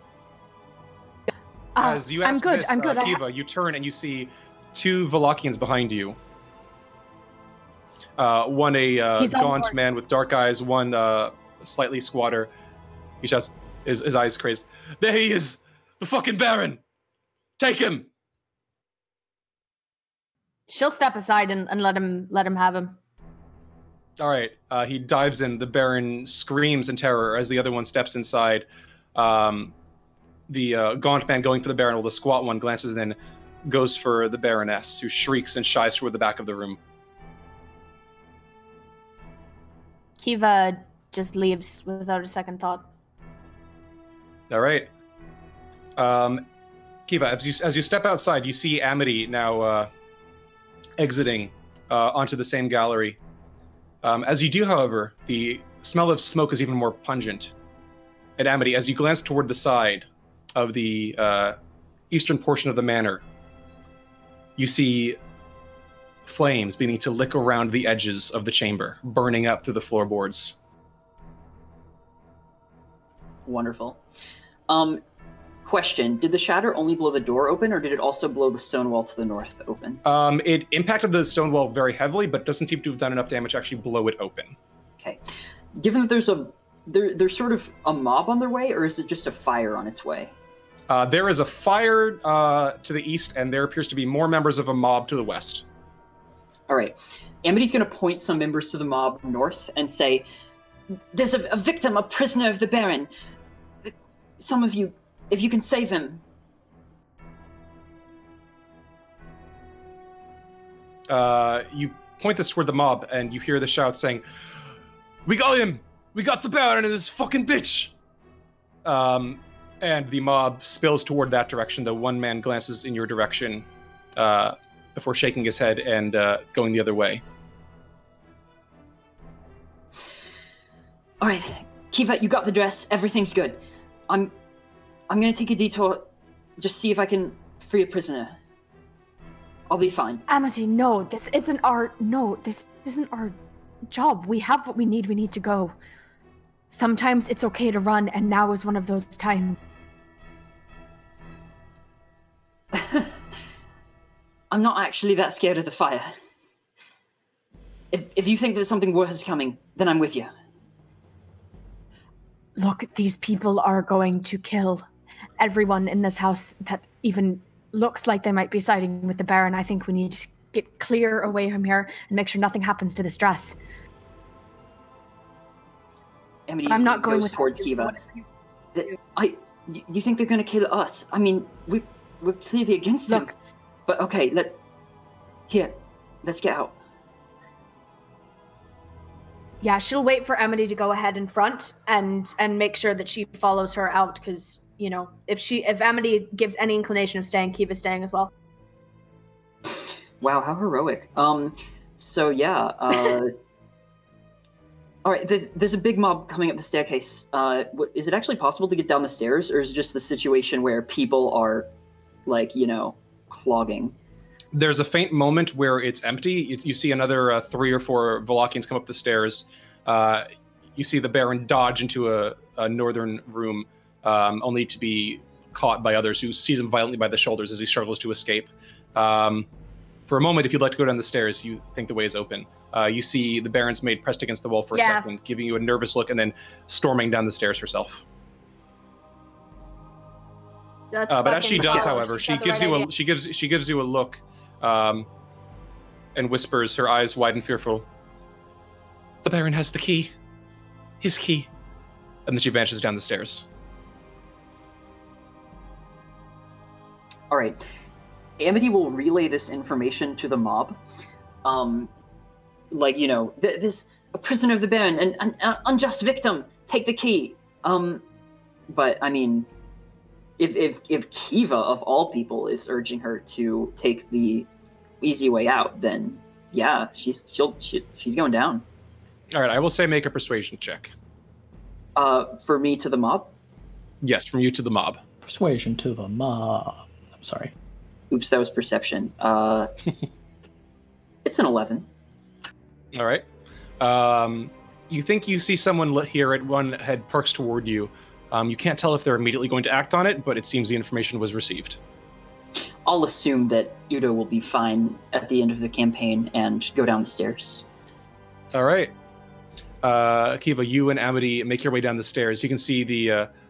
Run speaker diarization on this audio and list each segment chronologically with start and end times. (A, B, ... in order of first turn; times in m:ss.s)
0:01.8-0:03.2 A
0:01.8-0:06.2 B
0:08.2-0:12.5 B
0:09.2-0:09.7 A
0:13.2-0:16.8 B
0:17.6-0:18.1 B
0:20.7-0:23.0 A
0:24.2-0:29.7 B
0:30.5-0:36.8 B
0:40.2-0:42.9 A
0:44.5-0:44.9 B
0:46.0-0:46.4 B
0:47.1-0:49.9 B
0:51.0-0:53.2 B
0:54.0-0:57.5 B
0:58.4-1:01.6 B
1:02.1-1:03.2 B
1:04.6-1:05.2 B
1:06.2-1:10.6 B
1:13.4-1:14.0 C
1:14.7-1:15.0 C
1:15.6-1:20.0 C
1:20.0-1:24.6 B
1:25.7-1:30.3 C
1:30.9-1:35.6 B
1:36.7-1:40.2 C
1:41.1-1:43.1 C
1:43.8-1:46.2 C
1:51.1-1:54.2 B
1:55.2-1:57.9 B
1:58.8-2:07.2 B
2:11.2-2:14.3 C
2:15.1-2:16.1 C
2:16.6-2:18.4 C
2:19.7-2:20.2 C
2:20.3-2:23.4 A
2:23.9-2:25.7 A
2:26.7-2:29.6 A
2:32.7-2:33.1 C
2:34.5-2:36.2 C
2:37.9-2:40.3 C
2:42.6-2:44.8 A
2:45.4-2:53.6 A
2:56.5-2:58.0 C
2:56.6-2:58.0 A
2:58.7-3:03.3 C
3:03.9-3:04.6 C
3:05.5-3:06.7 C
3:09.6-3:18.3 A
3:20.2-3:23.3 C
3:25.0-3:31.7 C
3:32.2-3:34.0 C
3:34.5-3:49.5 B
3:50.1-3:58.0 B
3:54.7-3:55.1 A
4:00.9-4:02.9 A
4:01.1-4:05.1 B
4:06.1-4:07.8 B
4:09.2-4:10.1 B
4:11.0-4:11.5 B
4:12.2-4:13.4 B
4:17.3-4:17.6 C
4:18.4-4:20.8 C
4:21.4-4:21.9 C
4:22.7-4:28.0 C
4:28.7-4:29.5 C
4:30.4-4:34.5 C
4:35.0-4:38.6 C
4:39.3-4:40.9 B
4:42.0-4:43.3 C
4:44.0-4:45.0 B
4:45.2-4:47.5 D
4:48.1-4:49.7 C
4:51.2-4:51.9 C
4:52.9-4:53.2 B
4:53.8-5:01.8 B
5:02.8-5:07.6 C
5:08.5-5:08.9 B
5:09.8-5:13.3 B